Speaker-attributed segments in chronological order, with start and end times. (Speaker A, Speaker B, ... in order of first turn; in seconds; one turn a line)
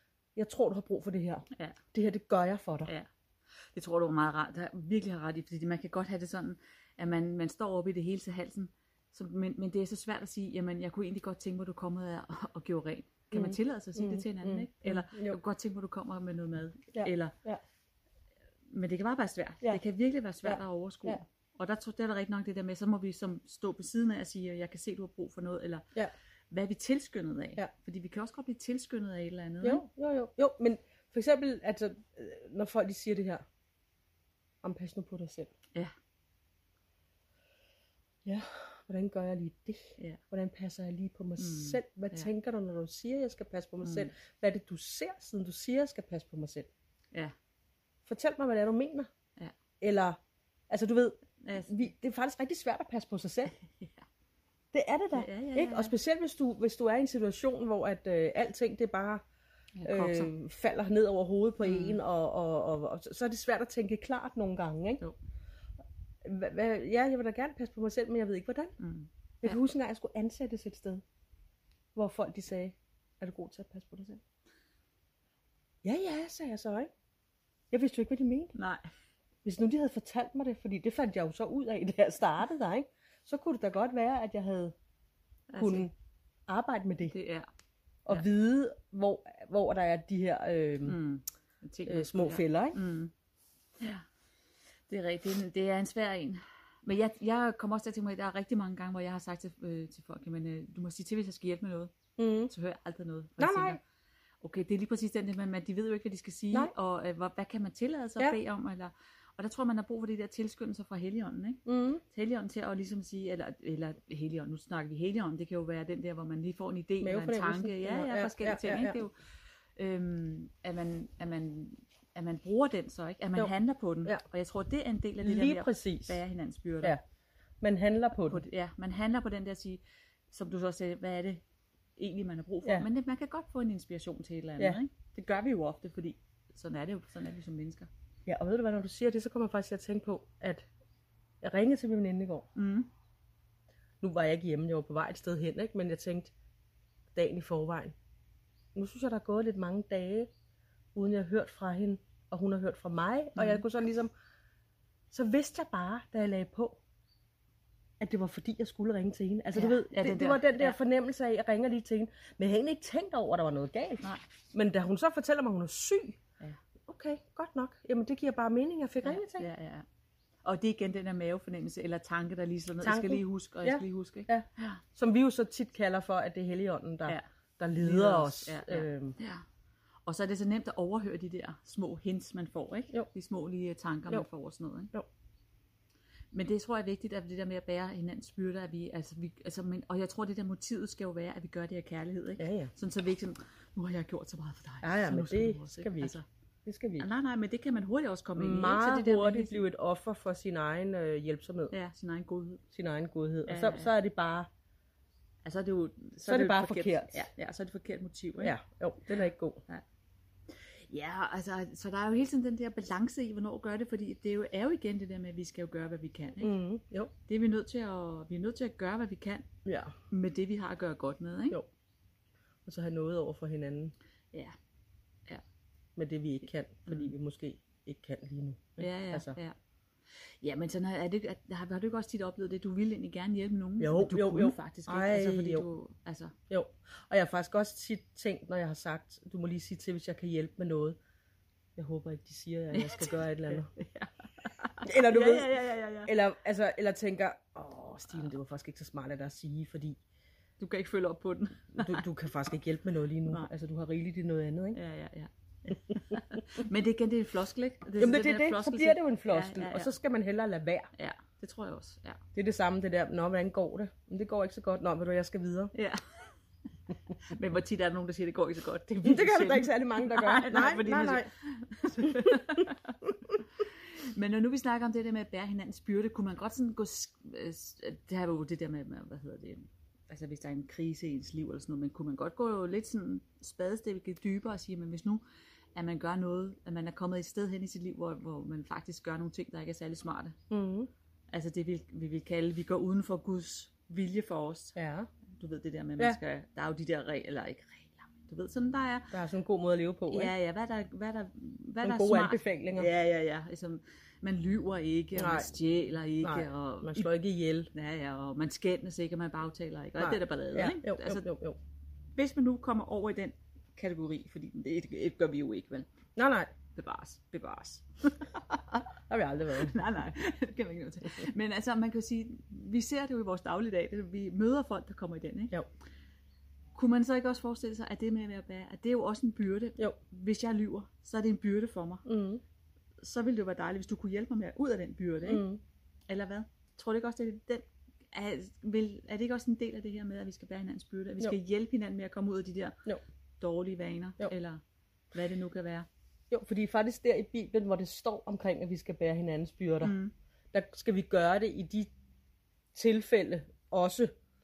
Speaker A: 0.4-2.9
Speaker B: 3.7-17.3
Speaker A: 13.3-15.4
Speaker A: 16.9-17.6
Speaker B: 18.7-25.8
Speaker A: 20.4-21.2
Speaker B: 26.5-29.9
Speaker A: 29.6-33.4
Speaker A: 34.6-35.5
Speaker A: 38.2-46.7
Speaker B: 41.4-42.3
Speaker B: 43.8-44.1
Speaker A: 48.1-49.1
Speaker A: 49.8-50.2
Speaker A: 50.7-53.5
Speaker B: 51.4-51.7
Speaker B: 53.6-54.1
Speaker A: 54.7-59.2
Speaker B: 55.1-56.0
Speaker B: 59.8-60.3
Speaker A: 59.9-65.0
Speaker B: 61.6-62.0
Speaker A: 66.2-68.8
Speaker B: 68.8-69.7
Speaker A: 69.4-71.0
Speaker A: 72.0-74.2
Speaker A: 75.8-76.9
Speaker A: 77.7-78.5
Speaker B: 78.5-78.9
Speaker A: 79.4-84.7
Speaker B: 85.5-85.9
Speaker A: 85.6-85.9
Speaker A: 86.5-87.2
Speaker B: 87.1-87.5
Speaker A: 88.1-91.0
Speaker B: 90.9-93.1
Speaker A: 91.9-92.8
Speaker B: 94.9-101.9
Speaker A: 102.2-102.5
Speaker B: 102.5-103.8
Speaker A: 103.4-103.8
Speaker B: 104.4-119.1
Speaker A: 111.7-112.0
Speaker A: 117.0-119.0
Speaker B: 119.8-127.0
Speaker A: 125.2-126.2
Speaker A: 127.6-128.4
Speaker B: 128.2-131.4
Speaker B: 132.0-137.9
Speaker A: 138.3-140.7
Speaker A: 141.4-142.5
Speaker B: 142.6-142.9
Speaker A: 144.0-146.3
Speaker A: 147.1-147.9
Speaker A: 148.8-150.3
Speaker A: 150.9-154.1
Speaker B: 153.3-153.6
Speaker A: 155.1-156.8
Speaker A: 158.0-166.2
Speaker B: 159.5-160.8
Speaker A: 166.8-169.5
Speaker B: 169.0-169.8
Speaker B: 170.4-174.8
Speaker A: 172.8-179.2
Speaker B: 177.8-179.4
Speaker B: 180.1-184.9
Speaker B: 186.3-196.2
Speaker A: 192.4-192.7
Speaker A: 194.8-197.1
Speaker B: 197.0-199.7
Speaker A: 198.4-201.7
Speaker B: 201.7-202.6
Speaker A: 202.7-204.5
Speaker B: 203.5-203.9
Speaker B: 205.4-208.6
Speaker A: 206.3-207.3
Speaker A: 208.4-209.6
Speaker B: 209.1-209.8
Speaker B: 210.7-216.5
Speaker A: 216.4-217.1
Speaker B: 217.3-219.5
Speaker A: 219.7-219.9
Speaker B: 220.1-221.6
Speaker A: 222.7-223.9
Speaker A: 226.0-229.4
Speaker B: 226.9-227.1
Speaker B: 228.8-229.6
Speaker B: 230.4-236.3
Speaker A: 233.8-235.7
Speaker A: 236.5-241.0
Speaker A: 241.8-243.7
Speaker B: 242.7-246.1
Speaker A: 244.8-250.0
Speaker B: 250.6-252.1
Speaker A: 251.8-254.8
Speaker B: 254.7-259.9
Speaker A: 258.0-260.9
Speaker B: 260.9-262.2
Speaker A: 262.4-265.7
Speaker B: 265.7-266.3
Speaker B: 267.2-285.2
Speaker A: 269.0-271.3
Speaker A: 272.0-272.6
Speaker B: 285.8-290.4
Speaker A: 290.5-290.9
Speaker B: 291.3-294.8
Speaker A: 294.8-295.1
Speaker B: 295.4-299.1
Speaker A: 299.1-300.3
Speaker B: 300.1-307.1
Speaker A: 301.8-302.9
Speaker A: 305.2-305.5
Speaker A: 306.2-307.7
Speaker B: 307.7-311.3
Speaker A: 310.0-311.6
Speaker B: 312.2-315.9
Speaker A: 316.2-316.5
Speaker B: 316.8-318.9
Speaker A: 319.1-319.8
Speaker B: 319.5-325.5
Speaker B: 326.8-332.1
Speaker A: 332.1-332.4
Speaker B: 333.0-335.4
Speaker A: 335.2-335.6
Speaker B: 336.1-342.8
Speaker B: 343.4-344.6
Speaker B: 345.1-345.9
Speaker A: 346.3-350.0
Speaker B: 349.8-350.1
Speaker A: 350.5-351.9
Speaker A: 352.8-354.1